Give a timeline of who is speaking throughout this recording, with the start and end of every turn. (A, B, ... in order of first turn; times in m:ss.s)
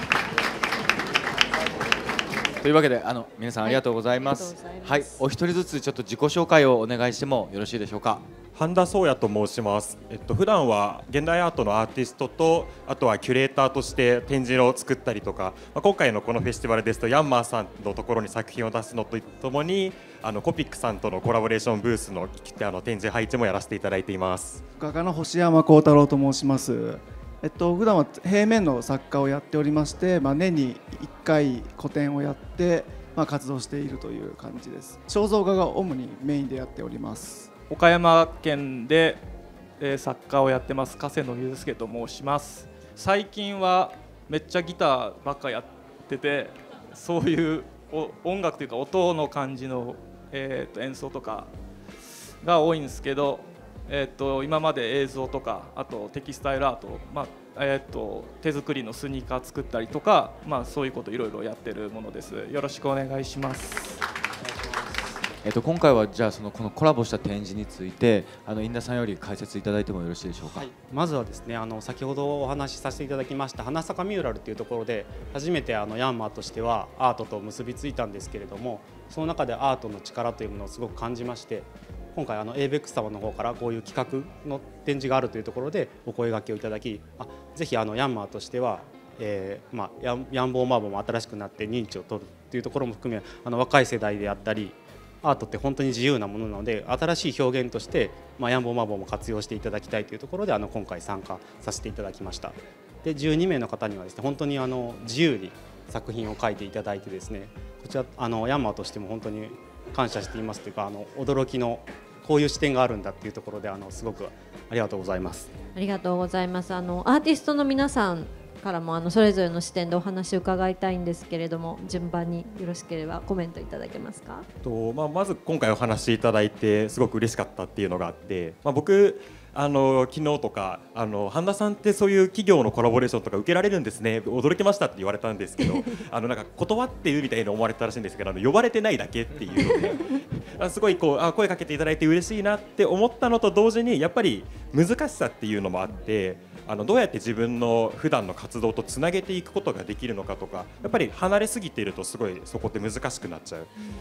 0:02.6-0:08.2 A
0:03.6-0:05.2 B
0:08.5-0:24.6 C
0:24.8-0:37.5 D
0:37.7-0:39.2 E
0:39.8-0:51.5 E
0:52.4-1:04.0 E
1:04.4-1:05.0 F
1:05.4-1:10.7 A
1:10.4-1:55.5 F
1:55.7-2:04.5 B
2:04.6-2:33.7 C